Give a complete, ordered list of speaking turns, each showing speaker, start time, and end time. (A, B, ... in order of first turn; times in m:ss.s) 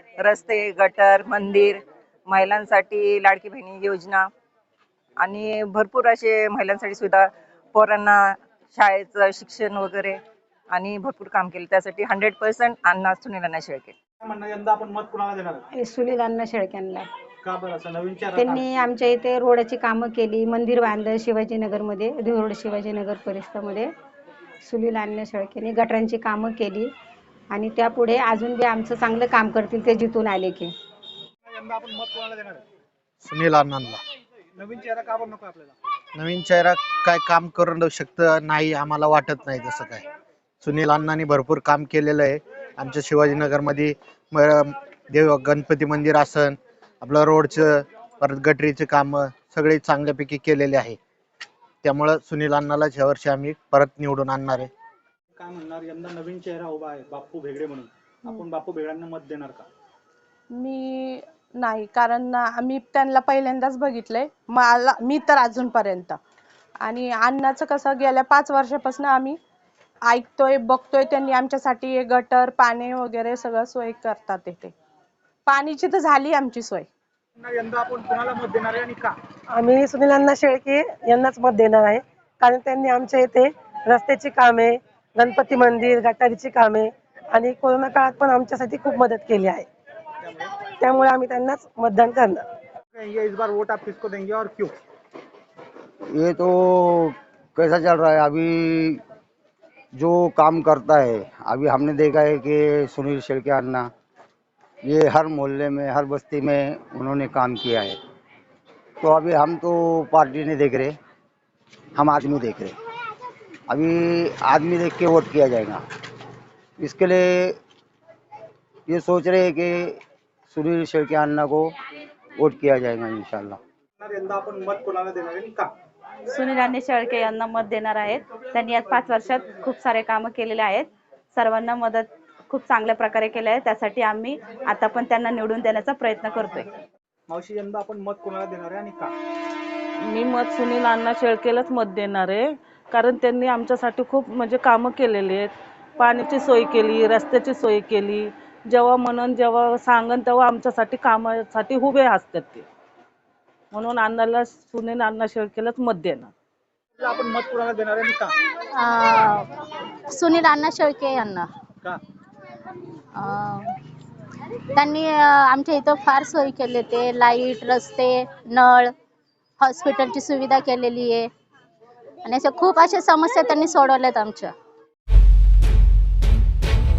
0:00.3-0:01.8 A
0:02.4-0:03.0 A
0:09.9-0:10.1 A
0:10.9-0:12.0 A
0:14.2-0:15.7 B
0:15.8-0:17.1 C
0:17.4-0:18.7 B
0:18.4-0:23.9 C
0:24.6-0:26.9 C
0:27.5-0:30.7 C
0:31.4-0:32.6 B
0:33.2-0:34.0 D
0:34.6-0:35.8 B
0:36.2-0:40.0 D
0:40.6-0:51.0 D
0:51.8-0:54.7 D
0:55.4-0:59.7 B
1:00.5-1:06.2 E
1:06.8-1:09.4 E
1:10.1-1:14.7 E
1:15.5-1:16.9 E
1:17.4-1:19.1 B
1:19.5-1:29.7 F
1:30.2-1:30.5 B
1:30.8-1:32.4 F
1:32.9-1:34.8 B
1:36.1-1:39.0 G
1:40.0-1:43.9 G
1:44.8-1:48.0 G
1:49.0-1:51.0 G
1:52.0-1:52.8 G
1:53.7-1:55.8 G
1:56.8-1:57.6 G
1:58.9-2:00.0 G
2:00.5-2:01.7 G
2:02.4-2:03.6 G
2:04.0-2:05.7 B
2:06.3-2:16.7 H
2:17.3-2:19.1 B
2:20.0-2:32.7 I
2:33.7-2:36.3 I
2:37.0-2:38.3 B
2:38.8-2:39.4 J
2:40.1-2:41.5 J
2:43.2-2:43.7 J
2:44.8-2:48.9 J
2:49.6-2:51.3 J
2:52.2-2:54.5 J